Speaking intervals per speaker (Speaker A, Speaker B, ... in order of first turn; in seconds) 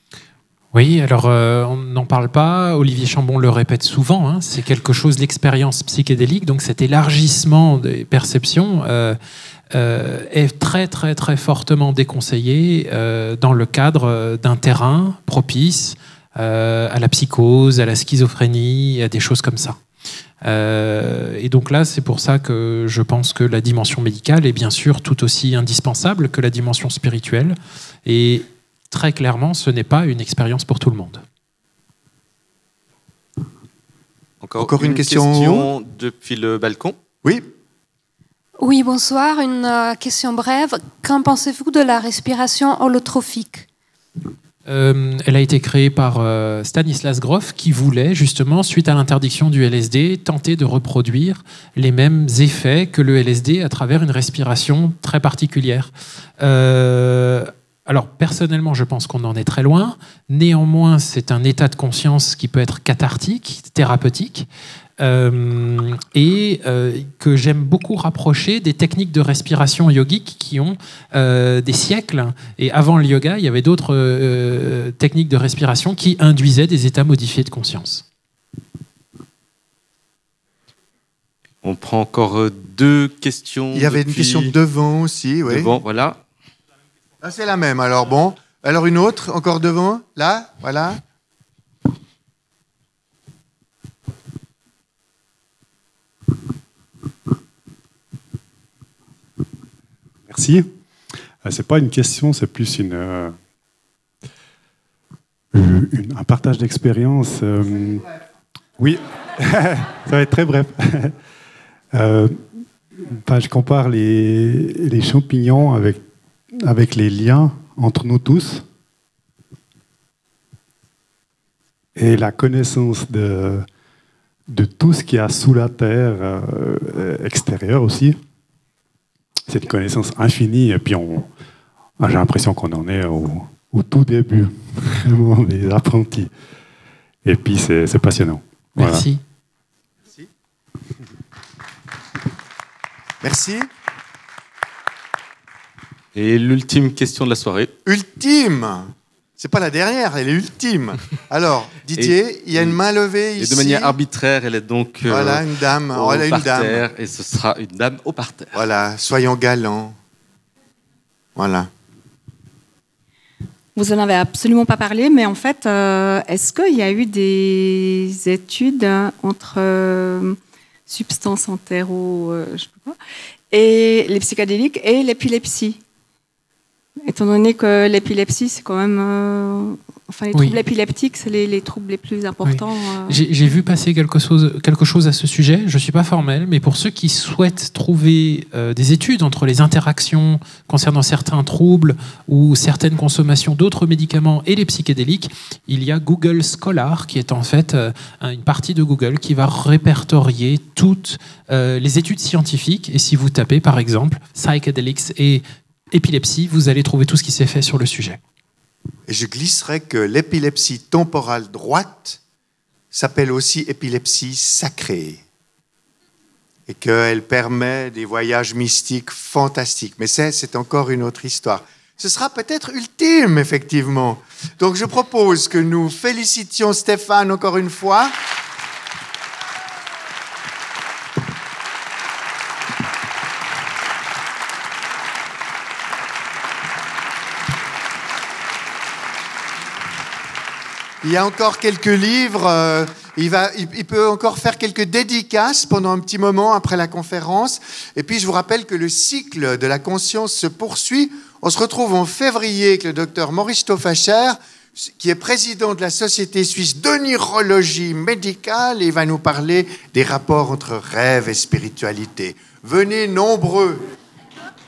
Speaker A: 0.7-9.2, 9.7-19.8, 20.4-31.2, 44.6-64.5, 65.0-78.0, 138.8-139.2, 180.3-180.6, 182.4-208.2
Speaker B: 34.4-37.0, 81.6-84.5, 85.5-86.2, 146.1-147.7, 151.9-152.8, 153.4-158.5
Speaker C: 34.6-35.7, 83.7-85.7, 87.2-91.0, 143.2-143.7, 147.8-153.9, 155.1-156.8, 158.5-160.0, 161.3-161.7, 209.1-212.2, 212.9-215.2, 216.7-228.1, 241.0-263.8
Speaker D: 38.6-43.7
Speaker E: 100.3-100.7, 101.4-103.3, 105.5-108.0, 108.8-111.1, 111.9-112.4, 113.1-116.0, 116.6-118.6, 122.0-123.7, 124.5-128.2, 129.5-131.3, 132.0-136.3, 137.2-139.1
Speaker F: 163.7-170.4, 170.9-173.0, 173.5-175.8, 177.1-183.2